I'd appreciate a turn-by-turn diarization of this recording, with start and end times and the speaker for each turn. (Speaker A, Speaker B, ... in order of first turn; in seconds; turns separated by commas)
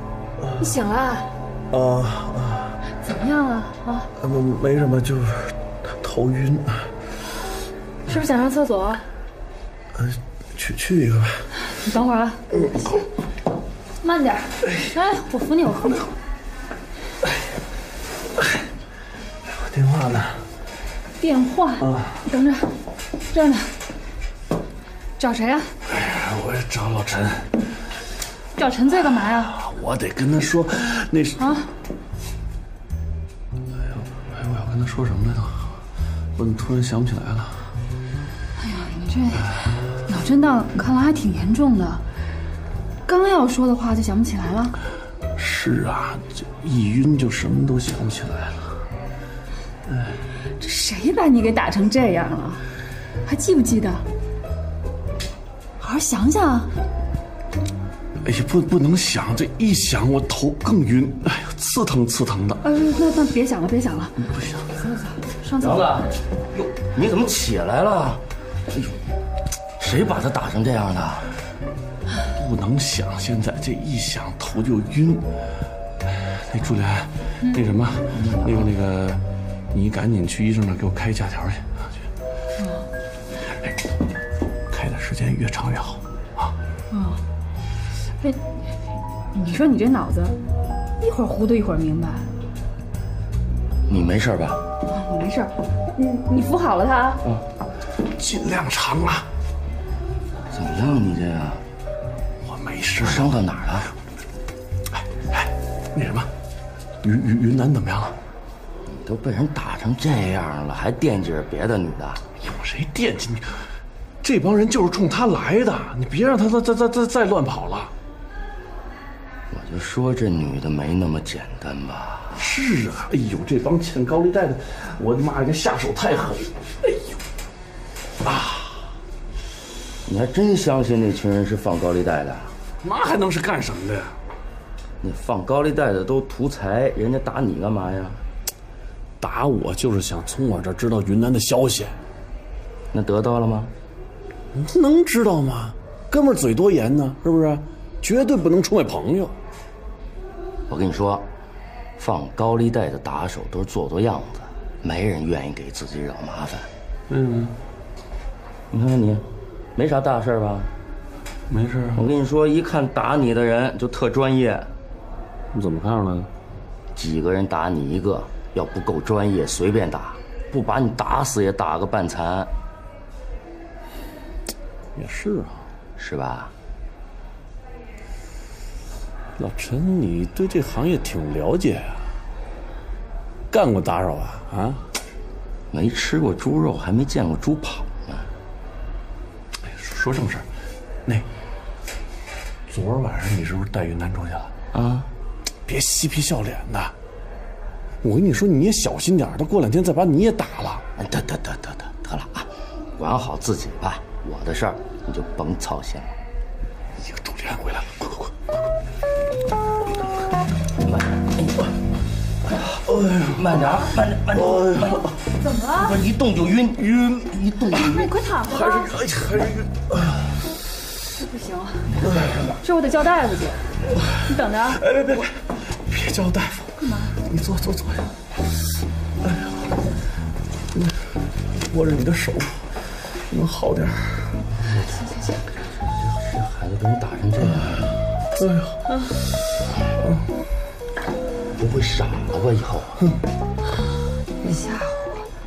Speaker A: 0.6-1.3, Speaker B: 1.7-2.8, Speaker A: 3.0-4.1, Speaker B: 4.2-6.9, Speaker A: 8.1-9.1, Speaker B: 9.9-11.5, Speaker A: 11.7-13.0, Speaker A: 14.0-16.1, Speaker B: 19.5-20.4, Speaker A: 21.2-22.7, Speaker B: 21.8-22.2, Speaker A: 23.3-23.7, Speaker A: 25.2-25.7, Speaker B: 25.9-27.5, Speaker A: 28.6-29.5, Speaker B: 29.4-31.5, Speaker A: 31.4-31.7, Speaker B: 33.9-35.7, Speaker B: 36.4-37.7, Speaker A: 38.6-42.0, Speaker A: 43.1-44.8, Speaker B: 45.4-48.8, Speaker A: 50.6-52.6, Speaker A: 53.2-54.0, Speaker A: 55.8-56.7, Speaker B: 58.2-62.6, Speaker A: 62.6-66.0, Speaker B: 64.4-64.8, Speaker C: 65.6-68.2, Speaker C: 69.8-71.3, Speaker B: 72.3-75.3, Speaker B: 76.1-81.9, Speaker C: 78.1-78.7, Speaker B: 84.7-86.5, Speaker A: 86.9-87.2, Speaker A: 88.2-88.5, Speaker A: 89.3-90.4, Speaker A: 91.0-92.3, Speaker C: 93.9-94.6, Speaker A: 94.9-97.2, Speaker B: 98.1-99.3, Speaker C: 100.5-101.6, Speaker B: 102.4-103.4, Speaker C: 103.0-103.9, Speaker B: 104.9-106.3, Speaker B: 107.0-108.2, Speaker C: 108.9-112.2, Speaker B: 112.4-113.7, Speaker B: 114.2-117.9, Speaker C: 119.5-122.4, Speaker B: 122.4-127.2, Speaker B: 128.2-128.9, Speaker C: 130.1-132.6, Speaker B: 132.8-134.2, Speaker C: 135.0-138.2, Speaker B: 139.2-142.0, Speaker C: 142.9-143.7, Speaker B: 144.5-149.3, Speaker C: 150.7-151.2, Speaker C: 152.0-156.7, Speaker B: 157.1-157.6, Speaker C: 158.7-159.2, Speaker C: 159.8-160.7, Speaker B: 161.5-162.1, Speaker C: 162.0-164.7, Speaker B: 165.5-166.3, Speaker C: 166.9-172.5, Speaker B: 175.0-175.7, Speaker C: 176.0-176.5, Speaker B: 179.4-182.1, Speaker B: 183.5-184.8, Speaker C: 185.7-188.3, Speaker B: 189.7-190.5, Speaker B: 192.7-194.5, Speaker C: 194.7-195.1, Speaker B: 195.7-196.9, Speaker B: 198.0-200.8, Speaker C: 201.0-206.1, Speaker B: 207.0-208.3, Speaker C: 210.8-211.6, Speaker B: 212.7-213.4, Speaker C: 213.3-215.2, Speaker B: 214.4-215.2, Speaker A: 215.4-216.0, Speaker C: 215.7-216.9, Speaker B: 216.8-220.4, Speaker A: 217.6-219.0, Speaker A: 221.1-224.8, Speaker B: 222.0-222.4, Speaker B: 224.1-228.1, Speaker A: 226.8-227.2, Speaker B: 229.2-229.7, Speaker B: 231.6-234.4, Speaker A: 234.7-235.5, Speaker C: 235.8-237.9, Speaker B: 238.4-238.8, Speaker C: 241.6-243.0, Speaker A: 244.4-245.3